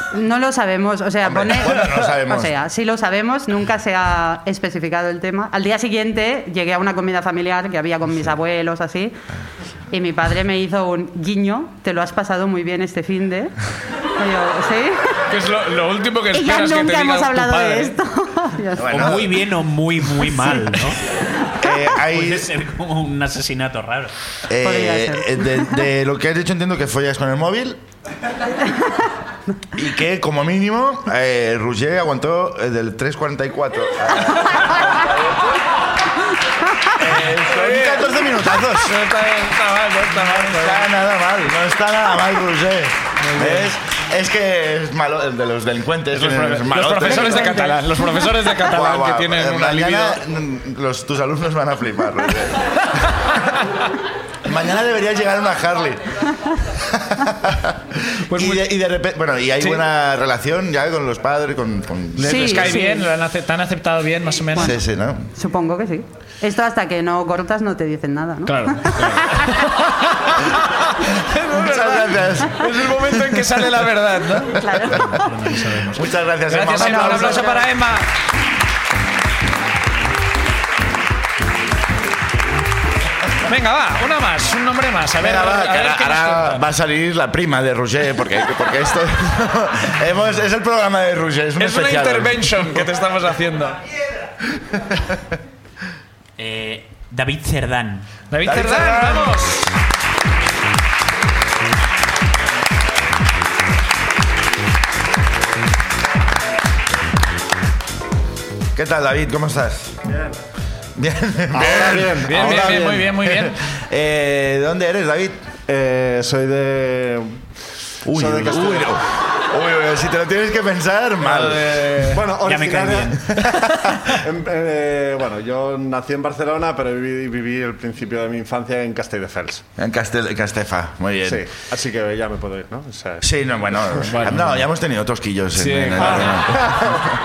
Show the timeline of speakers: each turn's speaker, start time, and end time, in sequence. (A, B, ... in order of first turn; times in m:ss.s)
0:00.1-0:09.2 A
0:01.2-0:02.5 B
0:09.9-0:13.5 A
0:14.2-0:15.2 A
0:15.3-0:18.0 C
0:16.3-0:19.1 A
0:18.8-0:19.4 B
0:18.9-0:21.0 D
0:20.2-0:20.8 A
0:21.6-0:22.5 B
0:21.9-0:24.1 D
0:24.5-0:27.8 B
0:24.6-0:25.8 A
0:29.8-0:35.3 B
0:37.0-0:40.9 C
0:37.0-0:39.0 B
0:40.2-0:47.7 B
0:43.2-0:43.7 C
0:46.1-0:50.2 C
0:47.3-0:47.7 A
0:48.6-0:52.7 B
0:54.4-0:56.0 B
0:56.7-1:02.8 B
0:58.3-0:58.6 C
1:02.2-1:04.7 C
1:02.2-1:03.1 A
1:04.5-1:05.3 B
1:05.4-1:09.3 A
1:08.4-1:18.1 C
1:11.5-1:13.6 B
1:14.7-1:15.2 B
1:14.8-1:15.3 A
1:15.9-1:17.6 B
1:16.7-1:17.6 A
1:23.5-1:26.6 C
1:25.2-1:32.9 B
1:31.6-1:33.8 C
1:34.7-1:35.1 B
1:36.4-1:38.1 D
1:38.3-1:39.6 C
1:38.4-1:39.6 B
1:48.7-1:50.0 B
1:51.0-1:55.4 B
1:51.5-1:53.1 E
1:52.2-1:53.6 C
1:55.7-1:57.4 E
1:58.0-2:02.0 B
1:58.1-1:59.0 E
2:01.2-2:02.2 C
2:02.1-2:03.2 E
2:02.4-2:03.4 D
2:03.2-2:03.8 B
2:04.1-2:09.6 E
2:09.8-2:11.5 B
2:11.2-2:14.0 E
2:13.2-2:17.0 B
2:14.1-2:14.6 C
2:15.6-2:16.5 C
2:16.0-2:17.1 E